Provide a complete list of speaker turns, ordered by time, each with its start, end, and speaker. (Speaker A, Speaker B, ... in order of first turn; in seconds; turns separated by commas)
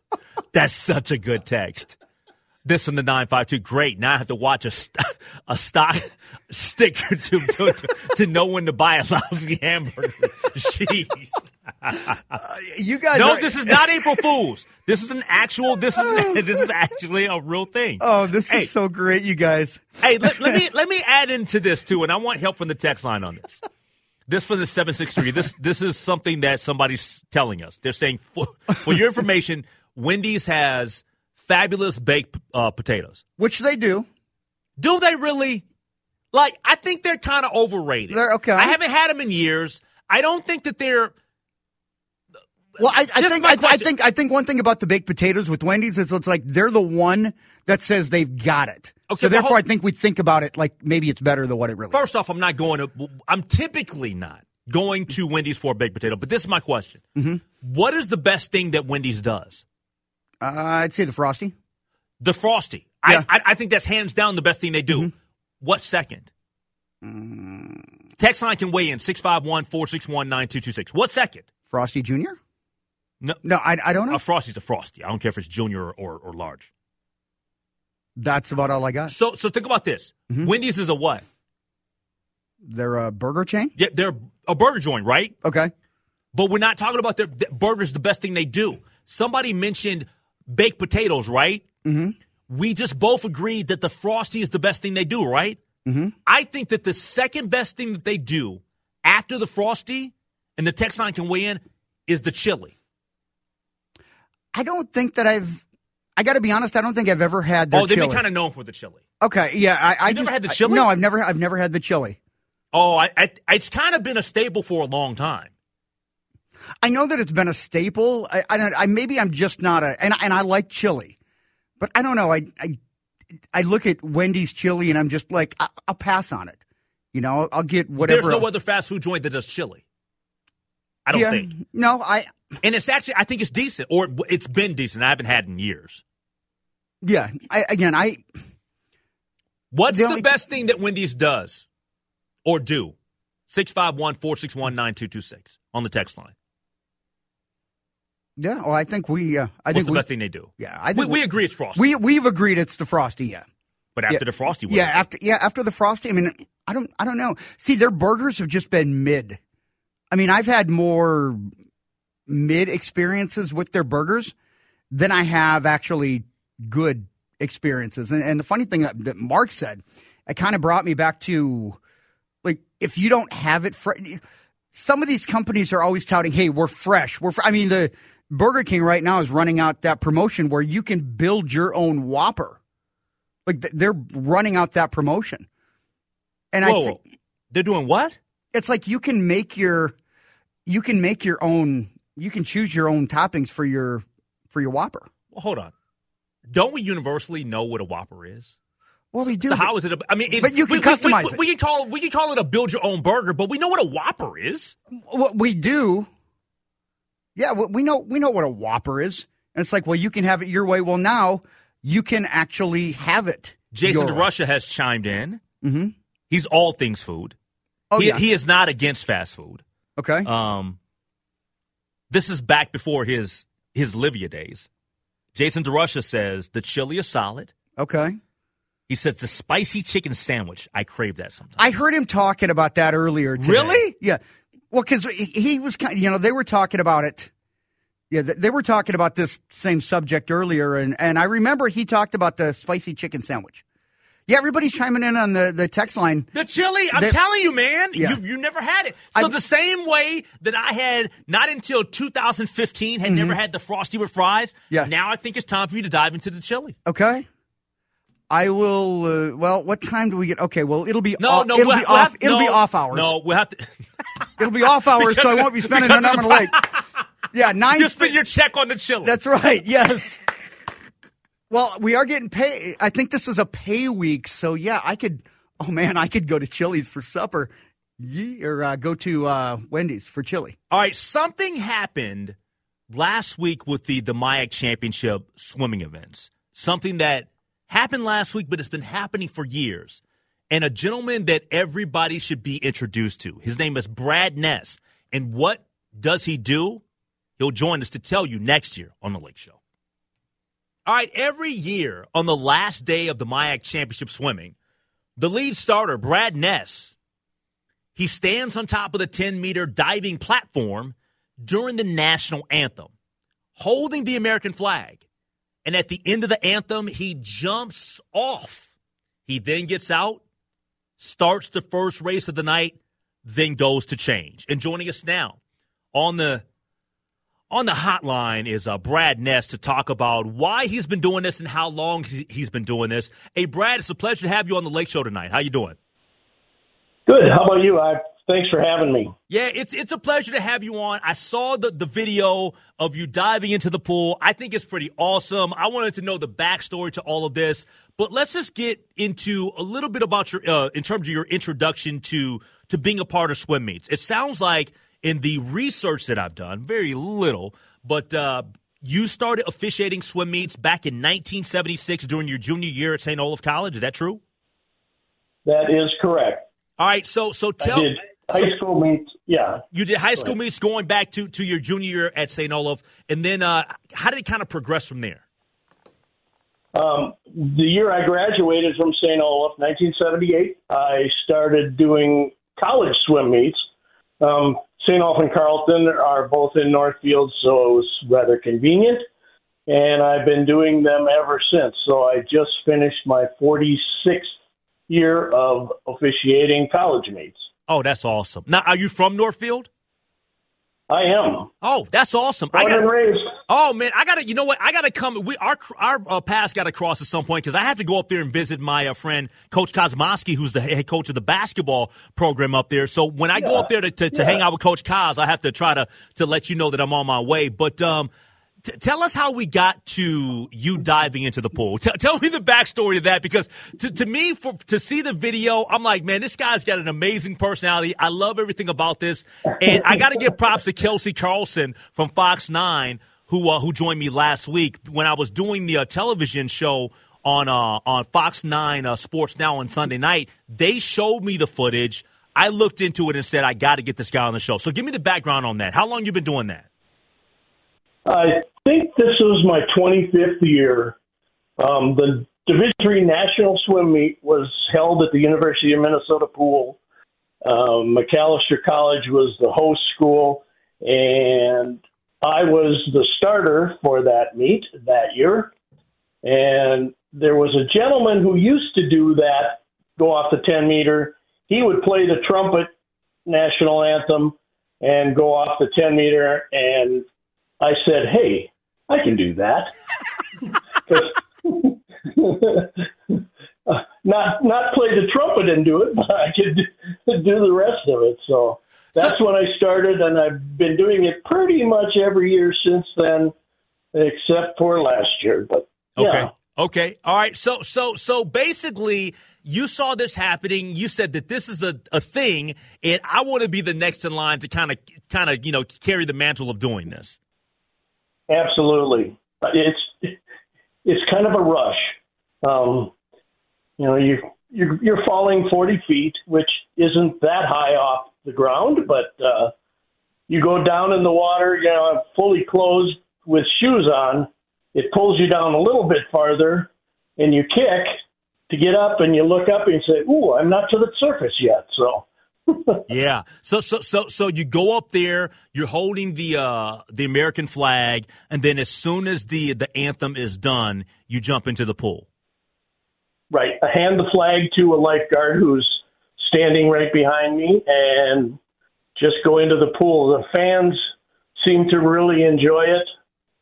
Speaker A: 0.5-2.0, Speaker A: 2.6-12.4, Speaker B: 12.4-14.2, Speaker A: 13.1-18.7, Speaker B: 16.0-16.4, Speaker B: 18.0-20.6, Speaker A: 20.0-23.6, Speaker A: 24.3-33.2, Speaker B: 33.4-34.1, Speaker A: 34.8-35.6, Speaker A: 36.3-41.1, Speaker B: 38.1-38.8, Speaker A: 42.8-43.9, Speaker B: 42.8-52.0, Speaker A: 49.1-49.6, Speaker A: 51.9-57.0, Speaker B: 57.1-57.4, Speaker A: 57.6-59.6, Speaker B: 60.4-61.5, Speaker A: 62.2-66.3, Speaker B: 67.0-67.8, Speaker A: 68.2-71.5, Speaker B: 71.7-72.4, Speaker B: 73.4-74.2, Speaker A: 74.1-76.7, Speaker B: 78.2-79.1, Speaker A: 79.1-81.2, Speaker B: 82.6-83.7, Speaker A: 83.8-85.3, Speaker B: 85.4-85.7, Speaker A: 86.3-91.7, Speaker B: 91.8-92.2, Speaker A: 92.5-95.6, Speaker B: 95.8-96.2, Speaker A: 96.3-102.7, Speaker B: 104.5-105.6, Speaker B: 106.2-108.2, Speaker A: 107.7-109.0, Speaker B: 109.2-112.2, Speaker A: 110.0-110.9, Speaker A: 112.7-115.5, Speaker B: 116.8-121.2, Speaker B: 121.8-122.8, Speaker B: 123.5-126.6, Speaker B: 127.1-128.5, Speaker A: 128.0-129.8, Speaker A: 131.1-131.5, Speaker B: 131.1-132.3, Speaker A: 132.6-136.0, Speaker B: 137.0-138.2, Speaker A: 139.7-141.7, Speaker B: 139.9-140.3, Speaker A: 142.5-142.9, Speaker A: 143.5-146.3, Speaker B: 148.4-150.1, Speaker A: 149.7-152.0, Speaker B: 150.6-151.2, Speaker B: 151.7-153.4, Speaker A: 154.0-155.1, Speaker B: 154.1-159.4, Speaker B: 160.1-161.5, Speaker B: 162.3-164.3, Speaker B: 164.9-171.8, Speaker B: 172.4-174.2, Speaker B: 174.7-182.6, Speaker B: 183.5-185.5, Speaker B: 186.5-187.0, Speaker A: 186.6-187.0, Speaker A: 187.5-188.2, Speaker B: 188.5-189.9, Speaker B: 190.7-195.1, Speaker A: 195.3-195.7, Speaker A: 196.5-198.5, Speaker B: 199.1-199.7, Speaker A: 199.2-204.8, Speaker B: 200.3-201.4, Speaker B: 205.1-206.1, Speaker B: 207.4-214.3, Speaker A: 213.7-215.4, Speaker B: 215.6-215.9, Speaker A: 216.3-217.4, Speaker B: 217.9-218.2, Speaker A: 218.0-219.6, Speaker B: 220.0-220.3, Speaker A: 220.2-220.8, Speaker A: 222.1-224.7, Speaker A: 225.3-227.5, Speaker B: 227.8-228.2, Speaker A: 228.9-231.8, Speaker B: 231.6-234.2, Speaker A: 233.4-233.9, Speaker B: 234.7-237.3, Speaker B: 238.1-243.6, Speaker B: 244.3-246.3, Speaker A: 246.3-256.8, Speaker B: 247.9-248.2, Speaker B: 253.1-253.4, Speaker B: 256.9-257.3, Speaker B: 258.3-263.1, Speaker A: 261.2-263.7, Speaker B: 264.4-266.6, Speaker A: 264.9-266.8, Speaker B: 267.3-268.2, Speaker A: 267.7-269.2, Speaker B: 269.0-270.2, Speaker B: 271.5-280.6, Speaker A: 280.7-282.4, Speaker A: 282.9-296.8, Speaker A: 297.4-299.6, Speaker A: 300.9-304.6, Speaker A: 305.2-306.9, Speaker A: 308.0-312.9, Speaker A: 313.6-315.0, Speaker A: 315.6-318.7, Speaker A: 319.3-320.2, Speaker A: 321.0-325.4, Speaker A: 325.9-326.4, Speaker A: 327.5-335.8, Speaker C: 337.1-339.1, Speaker A: 339.3-364.2, Speaker C: 365.5-366.4, Speaker A: 366.8-367.9, Speaker C: 367.6-369.6, Speaker A: 369.7-375.2, Speaker C: 376.8-383.7, Speaker C: 384.2-389.1, Speaker C: 389.7-394.4, Speaker C: 394.9-397.5, Speaker A: 397.7-399.7, Speaker C: 400.9-401.5, Speaker A: 401.6-402.9, Speaker C: 402.5-403.4, Speaker A: 403.5-418.1, Speaker C: 413.4-414.4, Speaker A: 418.6-446.7, Speaker C: 429.7-430.3, Speaker C: 448.1-451.0, Speaker C: 451.6-456.8, Speaker C: 457.4-465.5, Speaker C: 466.2-472.7, Speaker C: 473.3-477.1, Speaker C: 477.6-479.7, Speaker C: 480.9-493.3, Speaker C: 493.9-496.3, Speaker A: 496.0-507.2, Speaker C: 508.3-510.2, Speaker C: 510.9-512.9, Speaker C: 513.8-519.5, Speaker C: 520.3-528.0, Speaker C: 528.5-532.8, Speaker A: 532.9-542.1, Speaker C: 543.3-548.4, Speaker C: 549.0-550.8, Speaker C: 551.4-552.9